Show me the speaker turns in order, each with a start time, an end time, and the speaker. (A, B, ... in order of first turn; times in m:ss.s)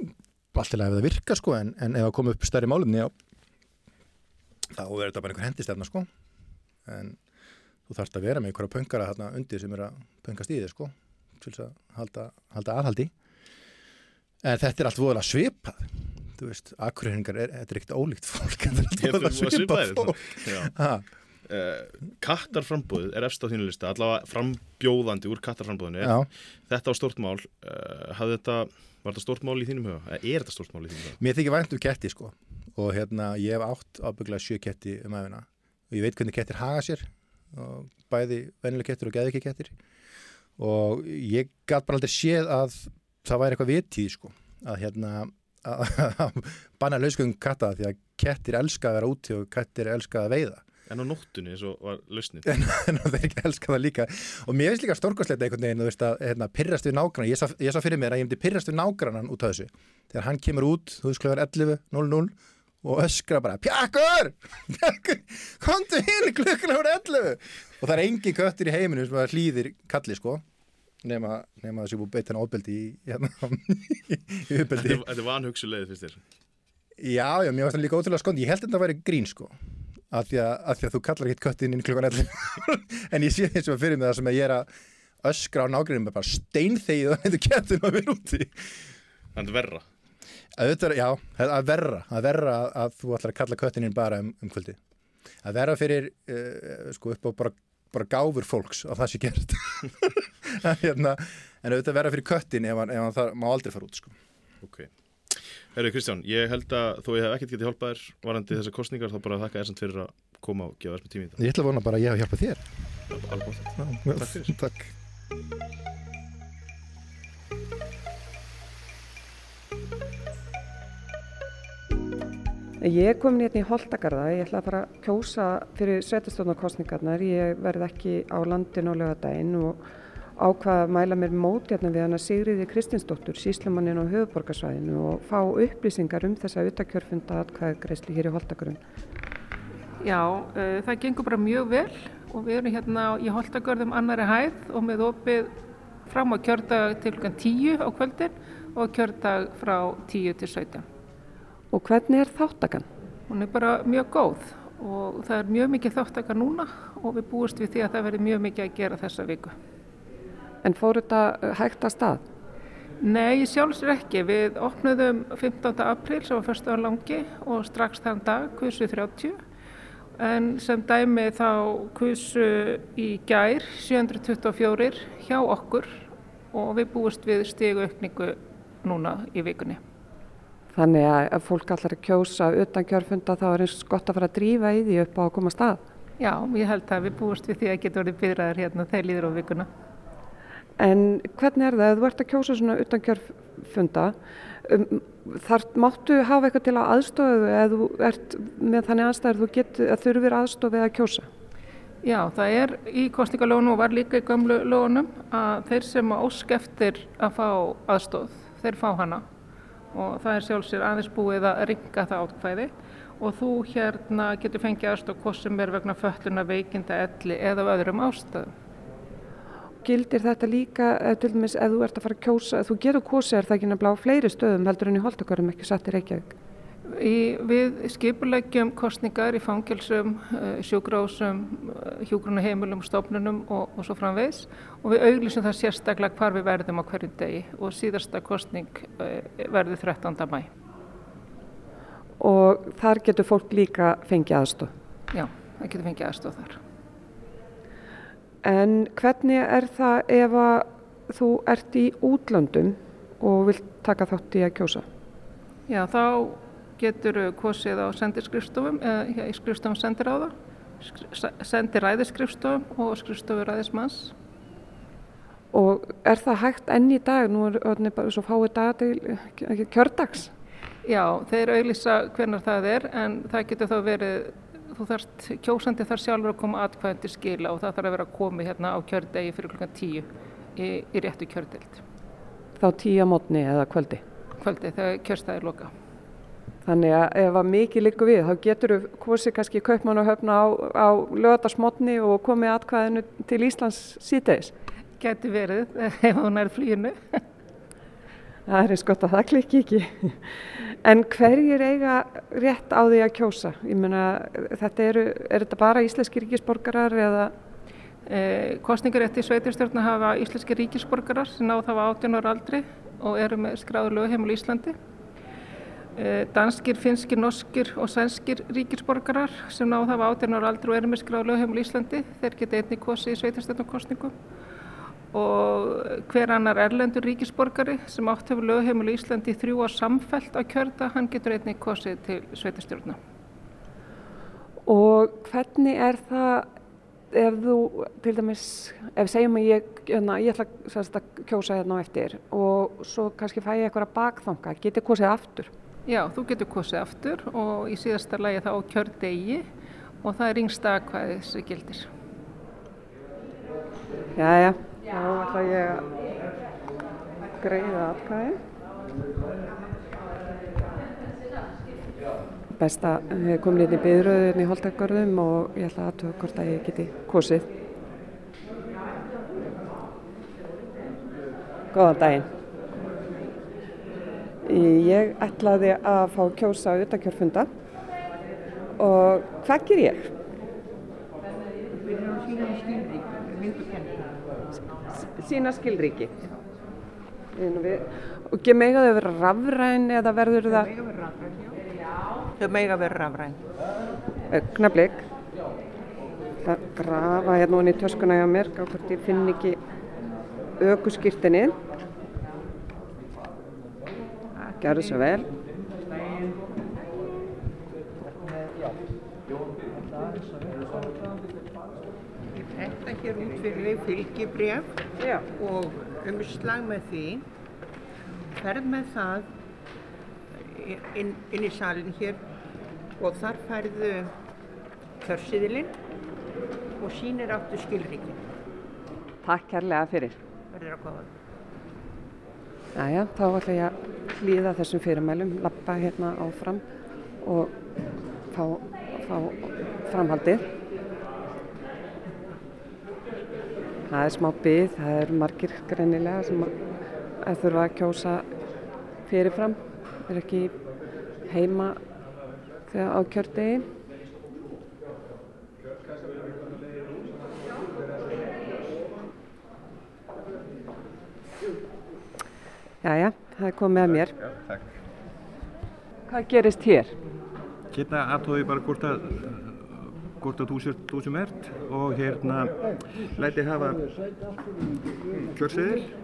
0:00.5-0:03.1 A
0:04.7-0:06.1 A
0:06.8-0:07.2 A
0:07.9-0:13.1 A
0:14.4-0:21.0 A
0:19.0-0:20.7 B
0:21.5-0:31.2 B
0:26.0-0:26.3 A
0:31.2-0:39.7 A
0:40.6-0:50.6 A
0:50.9-0:52.5 B
0:52.4-1:10.4 A
1:11.0-1:15.1 A
1:14.7-1:16.2 B
1:17.0-1:19.5 A
1:20.1-1:24.7 A
1:25.2-1:28.7 A
1:29.3-1:29.8 B
1:30.5-1:34.8 A
1:35.4-1:44.1 A
1:44.6-1:51.4 B
1:51.4-1:52.7 A
1:53.1-1:54.5 B
1:53.8-1:54.9 A
2:02.8-2:09.8 C
2:10.4-2:18.8 C
2:20.0-2:25.5 D
2:26.0-2:30.8 D
2:31.7-2:32.9 C
2:33.3-2:39.6 D
2:40.6-2:42.2 C
2:43.0-2:49.4 D
2:50.2-2:59.8 D
3:00.7-3:05.8 C
3:06.2-3:09.7 D
3:10.8-3:21.3 C
3:22.0-3:29.2 D
3:29.9-3:38.5 D
3:39.8-3:46.3 C
3:46.9-4:00.5 D
4:02.2-4:04.7 C
4:05.1-4:06.6 D
4:08.4-4:14.8 C
4:15.7-4:24.1 D
4:25.5-4:30.3 C
4:30.8-4:41.8 D
4:42.6-4:44.0 C
4:44.4-4:45.7 D
4:46.6-4:54.5 C
4:55.0-4:57.2 D
4:58.5-5:07.3 C
5:08.0-5:14.8 D
5:16.0-5:24.1 D
5:25.1-5:33.0 D
5:34.6-5:36.5 C
5:37.1-5:45.5 C
5:45.9-5:49.5 D
5:50.0-5:51.9 D
5:54.2-5:55.9 C
5:57.4-5:58.4 C
6:02.6-6:07.5 C
6:11.7-6:12.3 C
6:14.4-6:17.5 C
6:18.8-6:20.1 C
6:21.7-6:24.1 E
6:25.0-6:26.1 C
6:27.4-6:30.7 C
6:30.5-6:31.6 E
6:32.4-6:33.4 E
6:34.3-6:35.0 C
6:36.4-6:39.6 C
6:40.6-6:41.6 C
6:44.3-6:45.1 E
6:44.6-6:45.3 C
6:52.3-6:57.2 E
6:58.4-6:59.3 E
7:00.4-7:02.2 E
7:03.0-7:04.1 E
7:05.0-7:05.7 E
7:06.8-7:08.2 E
7:09.2-7:10.2 C
7:10.5-7:11.1 E
7:12.7-7:16.6 C
7:17.2-7:17.5 C
7:18.3-7:20.5 C
7:23.9-7:26.5 C
7:27.2-7:28.2 C
7:29.1-7:30.5 C
7:31.3-7:31.8 C
7:32.7-7:33.7 C
7:42.8-7:44.1 C
7:44.4-7:44.7 F
7:46.1-7:46.9 C
7:47.7-7:53.9 F
7:55.1-7:55.9 F